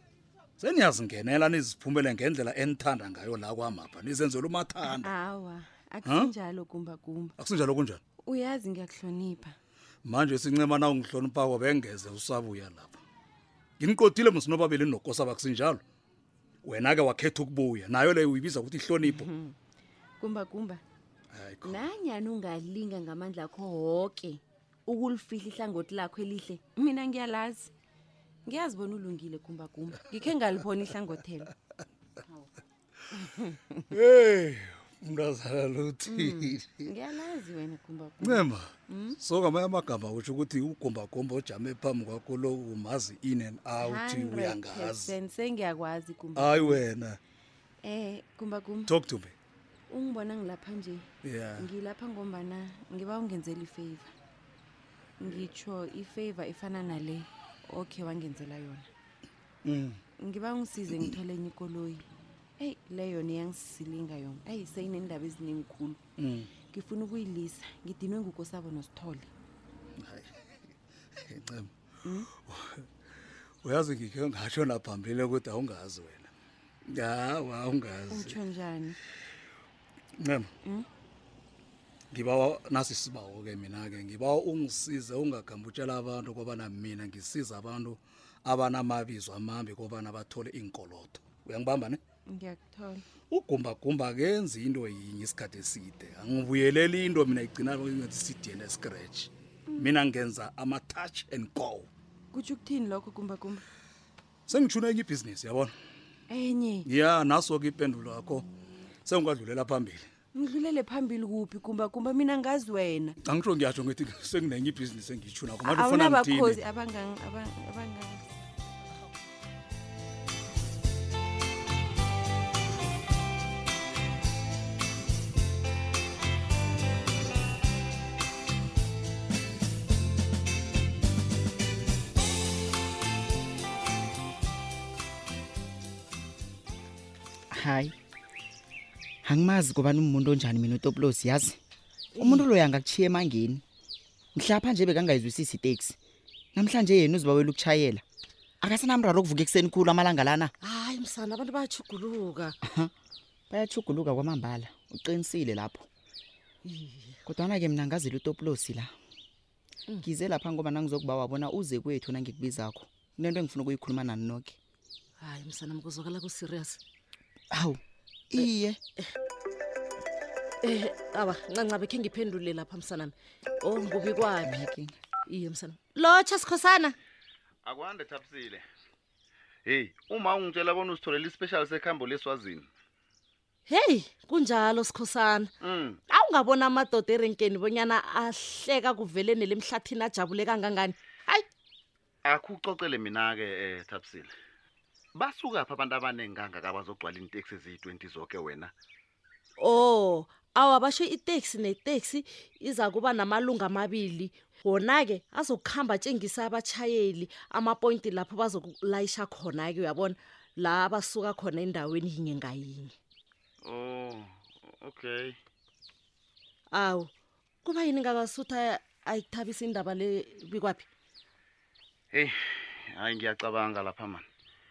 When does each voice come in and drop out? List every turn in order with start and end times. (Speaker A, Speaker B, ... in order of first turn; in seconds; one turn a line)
Speaker A: 0.6-5.1
Speaker B: 4.8-7.4
Speaker A: 6.0-6.3
Speaker A: 7.4-8.0
Speaker B: 8.2-9.6
Speaker A: 10.0-13.0
Speaker A: 13.8-15.8
Speaker A: 16.6-19.3
Speaker B: 19.0-19.5
Speaker B: 20.2-20.8
Speaker A: 21.3-21.9
Speaker B: 21.6-27.7
Speaker B: 28.4-31.5
Speaker B: 33.2-33.5
Speaker A: 33.9-36.9
Speaker B: 36.0-39.2
Speaker A: 38.2-45.2
Speaker B: 43.8-46.9
Speaker A: 46.3-47.2
Speaker B: 47.8-49.0
Speaker A: 48.8-49.3
Speaker B: 49.9-51.0
Speaker A: 51.2-51.7
Speaker B: 51.6-54.1
Speaker B: 55.2-58.9
Speaker A: 59.6-60.0
Speaker B: 60.2-62.0
Speaker B: 62.6-66.0
Speaker A: 66.2-66.5
Speaker B: 66.6-69.3
Speaker A: 70.0-70.4
Speaker A: 71.2-71.7
Speaker A: 72.3-72.8
Speaker A: 73.6-76.3
Speaker A: 76.9-78.4
Speaker B: 78.1-79.0
Speaker A: 80.2-80.5
Speaker A: 82.1-92.0
Speaker B: 92.2-93.0
Speaker A: 93.3-101.9
Speaker B: 99.7-100.0
Speaker B: 102.3-103.6
Speaker A: 104.5-105.7
Speaker B: 106.3-106.9
Speaker A: 106.8-108.5
Speaker A: 109.0-110.1
Speaker B: 110.3-113.2
Speaker A: 113.2-116.6
Speaker B: 115.6-118.2
Speaker C: 137.5-137.9
Speaker C: 139.2-141.6
Speaker D: 142.2-142.4
Speaker C: 142.2-143.6
Speaker C: 144.3-145.9
Speaker C: 146.5-148.0
Speaker C: 148.6-150.5
Speaker D: 150.6-152.6
Speaker C: 152.6-152.9
Speaker C: 153.5-155.9
Speaker D: 156.6-157.2
Speaker C: 157.2-158.9
Speaker C: 160.0-164.6
Speaker D: 165.2-166.8
Speaker C: 167.5-167.8
Speaker C: 168.3-168.8
Speaker D: 170.6-174.5
Speaker C: 174.4-175.0
Speaker D: 175.3-176.9
Speaker E: 177.6-178.6
Speaker E: 179.6-182.7
Speaker D: 183.7-185.5
Speaker E: 185.6-186.0
Speaker D: 186.1-191.4
Speaker E: 192.2-194.3
Speaker E: 195.1-198.7
Speaker D: 199.6-212.9
Speaker E: 213.6-215.4
Speaker D: 216.7-217.1
Speaker D: 217.6-220.8
Speaker E: 222.1-224.2